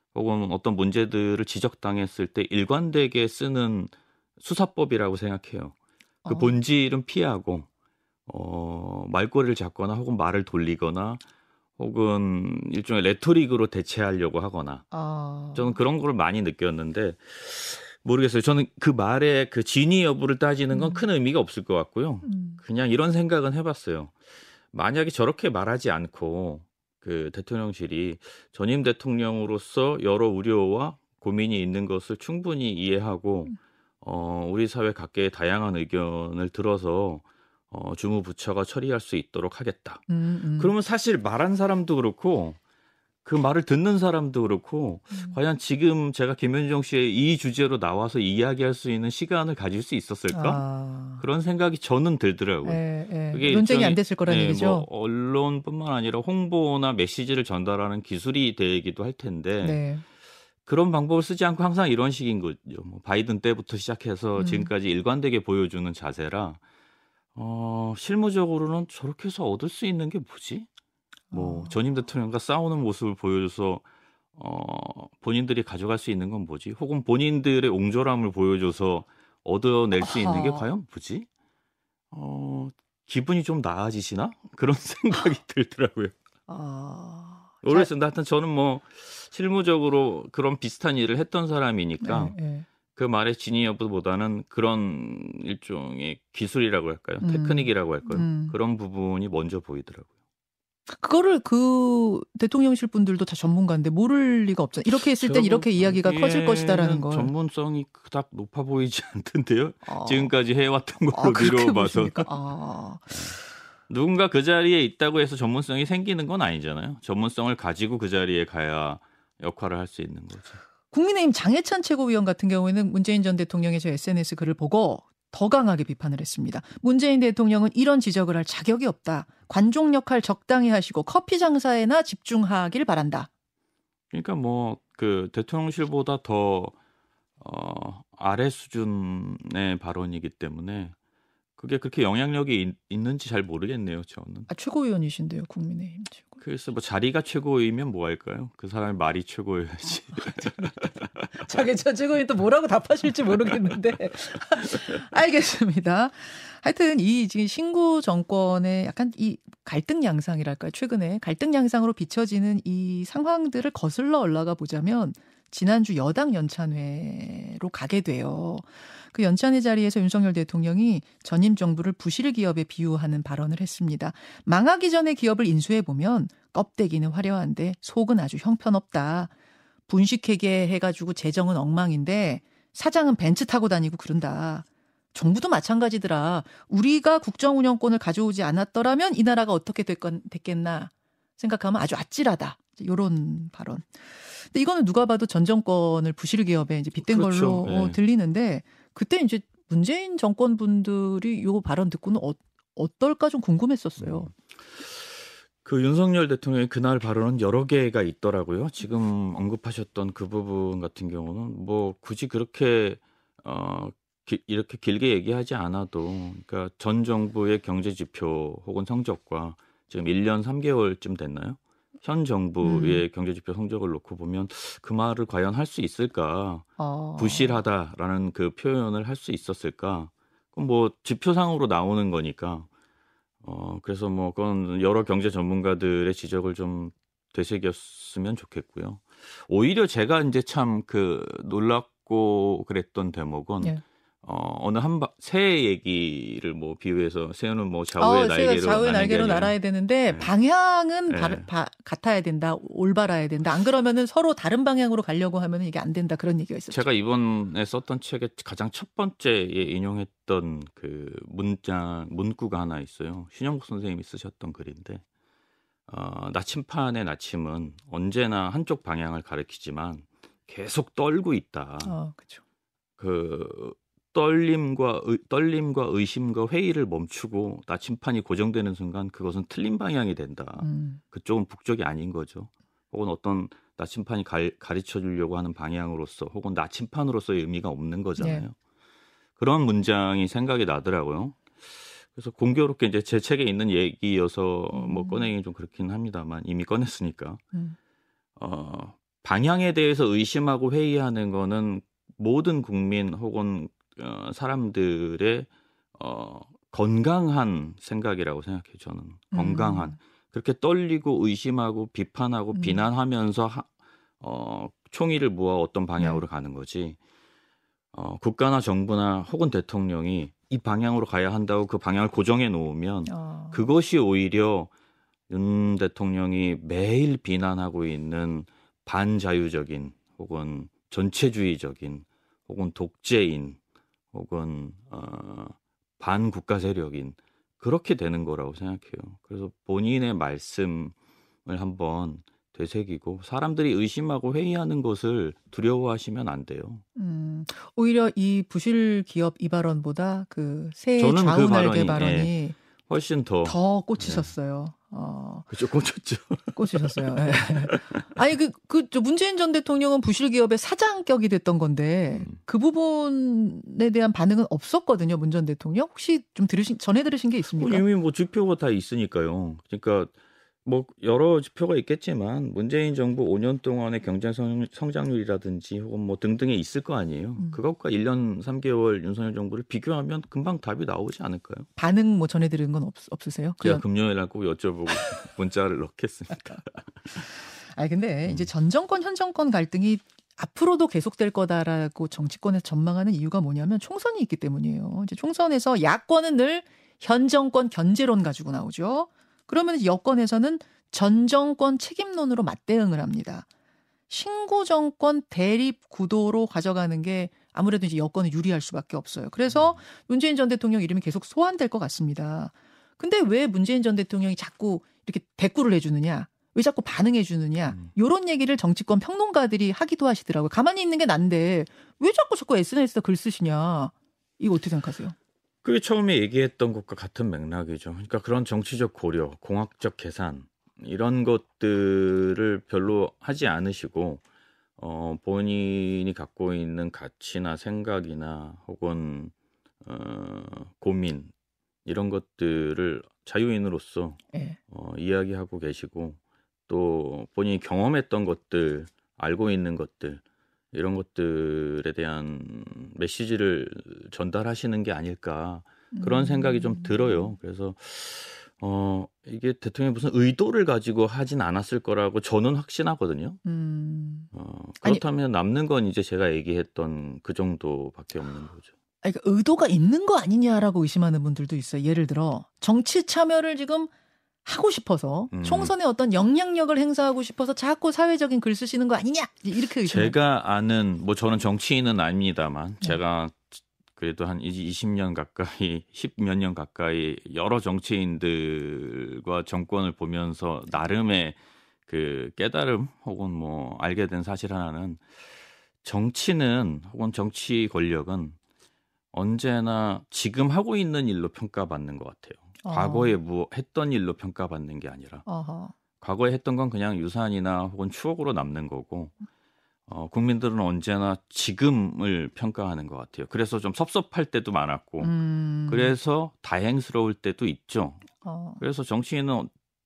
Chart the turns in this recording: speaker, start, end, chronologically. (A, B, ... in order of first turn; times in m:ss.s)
0:00.1-0:05.8 A
0:06.2-0:06.6 B
0:06.3-0:07.7 A
0:08.3-0:11.2 A
0:11.8-0:14.9 A
0:14.9-0:15.8 B
0:15.5-0:24.1 A
0:20.7-0:21.1 B
0:22.2-0:22.6 B
0:24.7-0:42.6 A
0:40.1-0:40.7 B
0:43.2-0:59.8 A
0:50.3-0:51.2 B
0:52.6-0:54.9 B
0:59.6-1:00.0 B
1:00.7-1:06.6 A
1:04.4-1:04.7 B
1:07.4-1:10.7 A
1:11.3-1:11.8 B
1:11.3-1:13.8 A
1:14.4-1:21.3 A
1:20.0-1:20.6 B
1:22.1-1:26.1 A
1:26.5-1:27.9 B
1:27.6-1:32.4 A
1:32.0-1:32.7 B
1:33.0-1:40.1 A
1:37.2-1:38.6 B
1:40.9-1:47.3 B
1:44.9-1:52.4 A
1:49.8-1:50.3 B
1:51.1-1:53.3 B
1:53.1-1:53.4 A
1:53.9-2:00.6 A
2:00.9-2:13.3 B
2:14.1-2:16.8 A
2:17.4-2:21.0 A
2:21.6-2:24.5 A
2:24.5-2:26.4 B
2:26.4-2:31.3 A
2:30.4-2:30.8 B
2:31.4-2:59.3 B
2:59.9-3:24.3 B
3:17.0-3:18.0 A
3:24.0-3:52.7 A
3:42.6-3:43.0 B
3:46.8-3:47.6 B
3:53.4-4:09.6 A
4:08.0-4:16.8 B
4:11.1-4:11.5 A
4:16.7-4:25.0 A
4:25.9-4:32.0 A
4:31.8-4:32.4 B
4:33.0-4:48.6 A
4:40.6-4:41.0 B
4:48.2-4:48.5 B
4:49.4-4:57.4 A
4:54.7-4:55.3 B
4:58.4-5:13.7 A
5:09.3-5:10.0 B
5:12.6-5:12.8 B
5:14.2-5:17.0 A
5:16.0-5:16.2 B
5:17.9-5:24.7 A
5:23.1-5:23.7 B
5:25.3-5:33.6 A
5:34.1-5:41.0 A
5:41.5-5:46.8 A
5:47.0-5:52.6 B
5:51.0-5:52.3 A
5:52.9-5:54.3 A
5:53.4-5:55.5 B
5:55.5-5:57.9 A
5:56.6-6:07.8 B
6:07.5-6:10.1 A
6:10.6-6:21.7 A
6:21.8-6:23.8 B
6:23.6-6:27.1 A
6:27.6-6:43.5 B
6:44.1-7:05.2 B
6:49.5-6:49.8 A
7:05.6-7:14.2 A
7:14.8-7:21.3 A
7:21.8-7:30.2 A
7:24.3-7:24.6 B
7:30.7-7:43.4 A
7:35.9-7:37.3 B
7:43.4-7:44.3 B
7:44.3-7:48.7 A
7:49.0-7:53.9 B
7:54.4-8:00.2 B
7:55.3-7:55.7 A
7:59.8-8:15.0 A
8:15.8-8:18.4 A
8:19.1-8:25.2 A
8:22.6-8:23.2 B
8:25.3-8:25.7 B
8:26.0-8:29.2 A
8:29.9-8:35.1 A
8:35.0-8:36.0 B
8:35.7-8:38.1 A
8:38.2-8:38.6 B
8:38.6-8:39.5 A